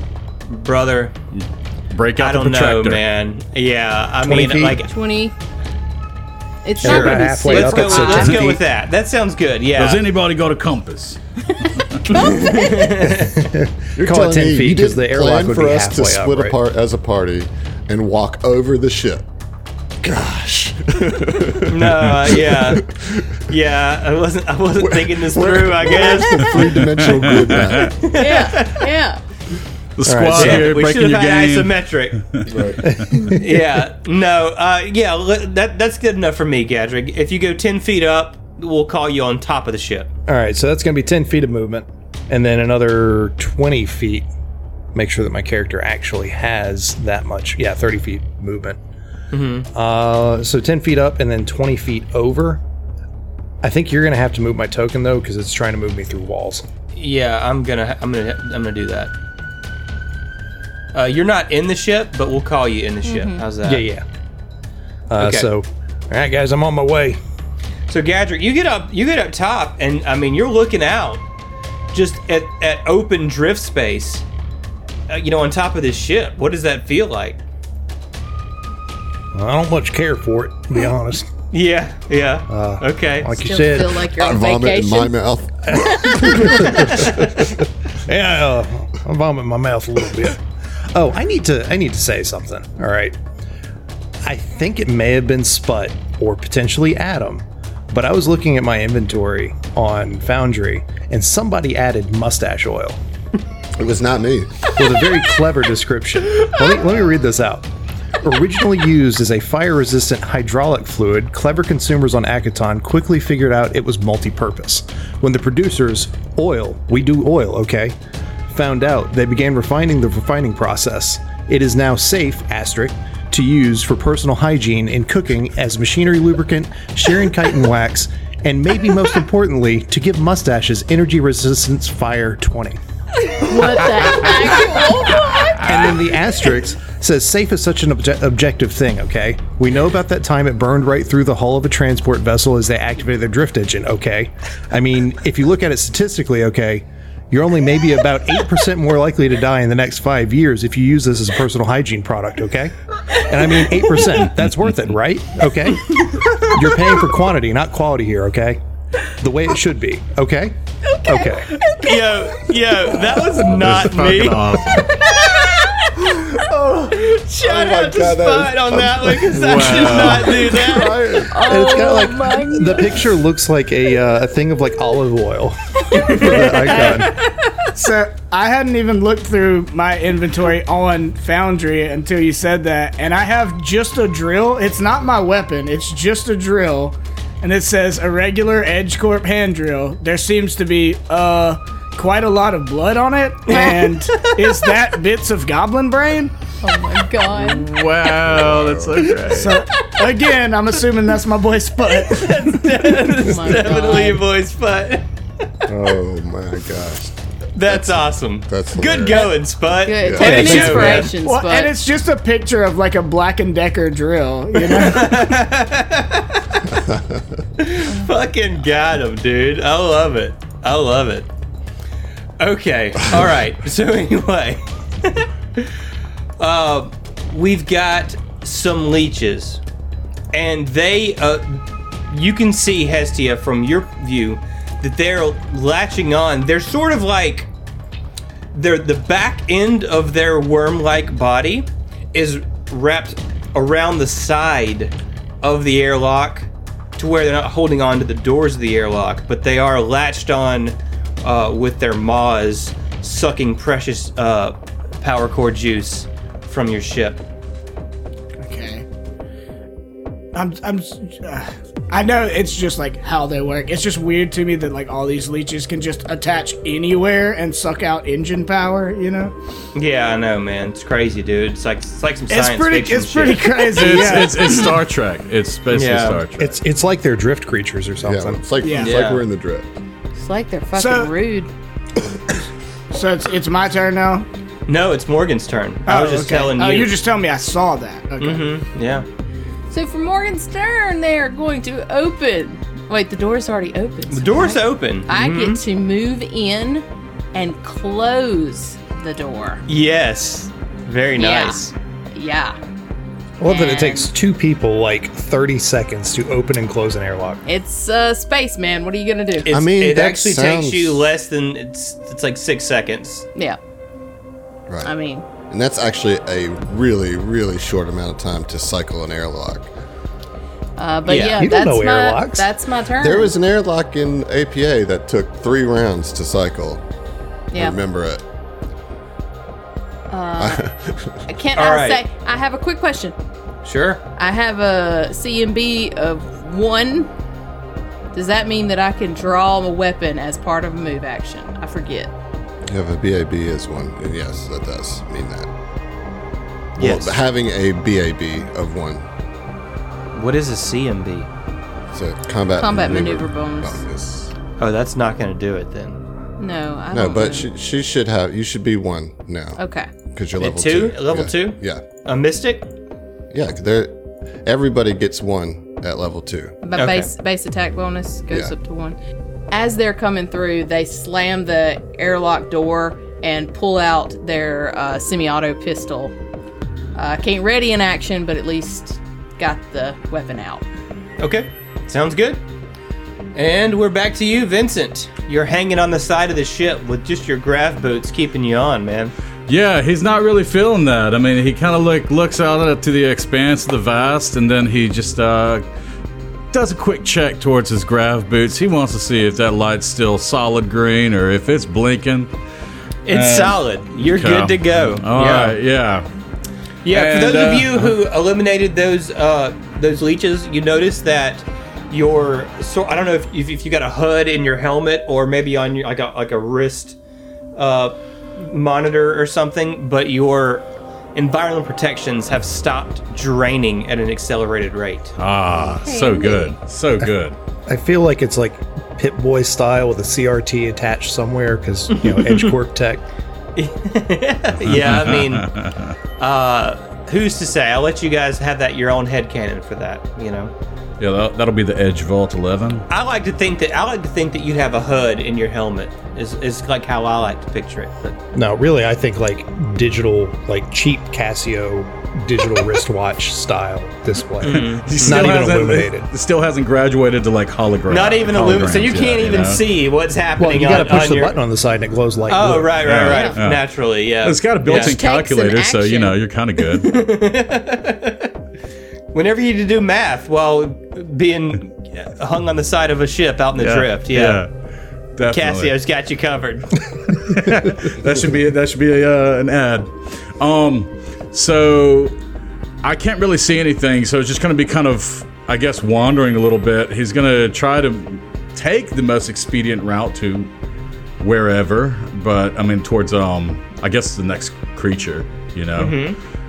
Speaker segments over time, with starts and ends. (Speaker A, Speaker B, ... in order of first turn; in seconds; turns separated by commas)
Speaker A: 0.5-1.1, Speaker B: 1.3-3.0, Speaker A: 2.2-4.9, Speaker C: 4.2-4.8, Speaker D: 4.8-5.3, Speaker D: 6.6-8.5, Speaker C: 6.8-8.6, Speaker A: 6.8-10.0, Speaker B: 9.8-12.0, Speaker D: 12.1-12.9, Speaker A: 12.1-13.3, Speaker C: 13.2-16.5, Speaker E: 13.9-19.2, Speaker E: 20.0-23.4, Speaker A: 21.7-22.8, Speaker A: 23.4-26.7, Speaker E: 24.8-28.0, Speaker B: 26.9-27.8, Speaker A: 27.7-28.9, Speaker D: 28.1-29.2, Speaker B: 30.0-31.7, Speaker C: 30.1-30.8, Speaker A: 30.3-32.4, Speaker B: 32.3-33.2, Speaker E: 32.5-32.8, Speaker C: 32.8-33.7, Speaker A: 33.3-40.1, Speaker C: 40.3-44.3, Speaker C: 44.9-48.8, Speaker A: 49.3-49.7, Speaker C: 49.7-52.6, Speaker C: 53.6-56.6, Speaker A: 56.9-59.1, Speaker A: 60.9-63.8, Speaker D: 63.0-63.4, Speaker C: 63.6-64.0, Speaker C: 65.1-67.2, Speaker A: 65.2-65.5, Speaker A: 67.9-71.2, Speaker A: 71.9-74.2, Speaker A: 75.1-77.4, Speaker C: 79.3-81.3, Speaker A: 81.5-83.3, Speaker C: 82.5-84.0, Speaker D: 83.4-85.1, Speaker E: 84.2-87.5, Speaker C: 85.7-90.4, Speaker C: 90.9-93.2, Speaker C: 94.2-103.0, Speaker E: 103.8-104.7, Speaker C: 104.8-107.7, Speaker C: 108.2-118.0, Speaker C: 118.5-132.8, Speaker D: 133.2-135.9, Speaker C: 135.6-158.6, Speaker C: 159.2-161.6, Speaker D: 160.9-161.9, Speaker A: 161.7-171.1, Speaker B: 163.3-164.9, Speaker E: 167.4-171.4, Speaker B: 169.3-170.4, Speaker D: 171.3-173.0, Speaker C: 171.4-177.1, Speaker A: 176.3-177.1, Speaker F: 177.7-196.3, Speaker A: 193.5-194.7, Speaker D: 196.6-197.7, Speaker B: 197.3-199.6, Speaker E: 198.2-199.1, Speaker F: 199.3-202.6, Speaker A: 201.9-205.1, Speaker D: 203.2-204.2, Speaker E: 205.7-209.3, Speaker A: 207.5-211.1, Speaker D: 209.1-211.7, Speaker E: 210.0-210.5, Speaker C: 210.2-211.1, Speaker F: 210.5-215.4, Speaker A: 214.6-216.6, Speaker E: 216.7-217.4, Speaker A: 217.6-221.3, Speaker A: 222.4-225.7, Speaker A: 226.4-229.6, Speaker A: 230.3-237.5, Speaker A: 238.5-257.2, Speaker F: 258.4-258.9, Speaker F: 260.3-269.3, Speaker A: 269.7-274.0, Speaker F: 272.3-274.8, Speaker B: 273.7-276.6, Speaker A: 275.7-276.2, Speaker C: 276.4-278.4, Speaker E: 278.0-279.7, Speaker F: 278.6-278.9, Speaker A: 278.7-279.2, Speaker D: 280.1-281.5, Speaker F: 280.7-281.1, Speaker F: 282.9-284.3, Speaker A: 284.7-286.9, Speaker F: 285.9-288.4, Speaker A: 288.2-289.1, Speaker D: 289.7-299.6, Speaker A: 294.1-295.6, Speaker A: 299.7-301.7, Speaker D: 301.2-301.6, Speaker D: 302.1-302.6, Speaker C: 303.4-307.4, Speaker D: 303.4-304.1, Speaker D: 307.4-309.5, Speaker A: 309.4-313.2, Speaker E: 309.5-311.1, Speaker D: 314.8-315.2, Speaker E: 315.5-319.7, Speaker D: 320.8-323.3, Speaker A: 321.1-321.4, Speaker C: 321.4-322.5, Speaker E: 323.0-326.8, Speaker D: 327.5-327.8, Speaker E: 327.5-328.2, Speaker D: 330.1-330.6, Speaker E: 330.4-331.2, Speaker D: 331.3-333.1, Speaker A: 331.6-332.0, Speaker A: 333.6-334.0, Speaker D: 334.1-337.1, Speaker D: 338.1-342.1, Speaker E: 342.7-345.5, Speaker A: 346.8-347.2, Speaker E: 346.8-349.1, Speaker A: 350.1-351.3, Speaker E: 351.9-354.3, Speaker D: 352.6-353.8, Speaker A: 354.6-356.0, Speaker D: 356.4-357.5, Speaker E: 356.9-359.6, Speaker D: 359.6-359.9, Speaker E: 360.1-361.8, Speaker A: 360.4-362.7, Speaker E: 363.3-366.6, Speaker D: 366.6-368.9, Speaker A: 366.8-367.1, Speaker D: 369.5-376.1, Speaker D: 376.9-380.6, Speaker A: 381.2-382.4, Speaker A: 383.3-389.1, Speaker B: 389.5-395.6, Speaker B: 396.5-402.3, Speaker A: 403.1-405.6, Speaker B: 403.1-406.1, Speaker A: 406.8-416.9, Speaker B: 406.9-407.9, Speaker A: 417.6-425.1, Speaker B: 425.2-427.4, Speaker D: 425.6-426.5, Speaker C: 427.7-433.0, Speaker A: 431.9-432.5, Speaker A: 433.6-435.5, Speaker B: 434.6-435.9, Speaker A: 436.2-440.5, Speaker B: 441.0-442.8, Speaker A: 442.9-448.2, Speaker C: 448.3-456.1, Speaker A: 454.4-455.4, Speaker B: 454.5-459.6, Speaker A: 457.9-461.4, Speaker C: 460.4-462.9, Speaker A: 462.3-464.9, Speaker B: 462.8-463.7, Speaker D: 463.1-463.4, Speaker B: 464.2-466.9, Speaker D: 464.6-466.1, Speaker A: 466.6-468.3, Speaker A: 469.1-474.4, Speaker B: 473.6-474.5, Speaker B: 475.1-475.7, Speaker A: 475.3-476.8, Speaker B: 477.1-482.1, Speaker B: 482.8-490.5, Speaker B: 491.2-496.0, Speaker A: 495.8-496.2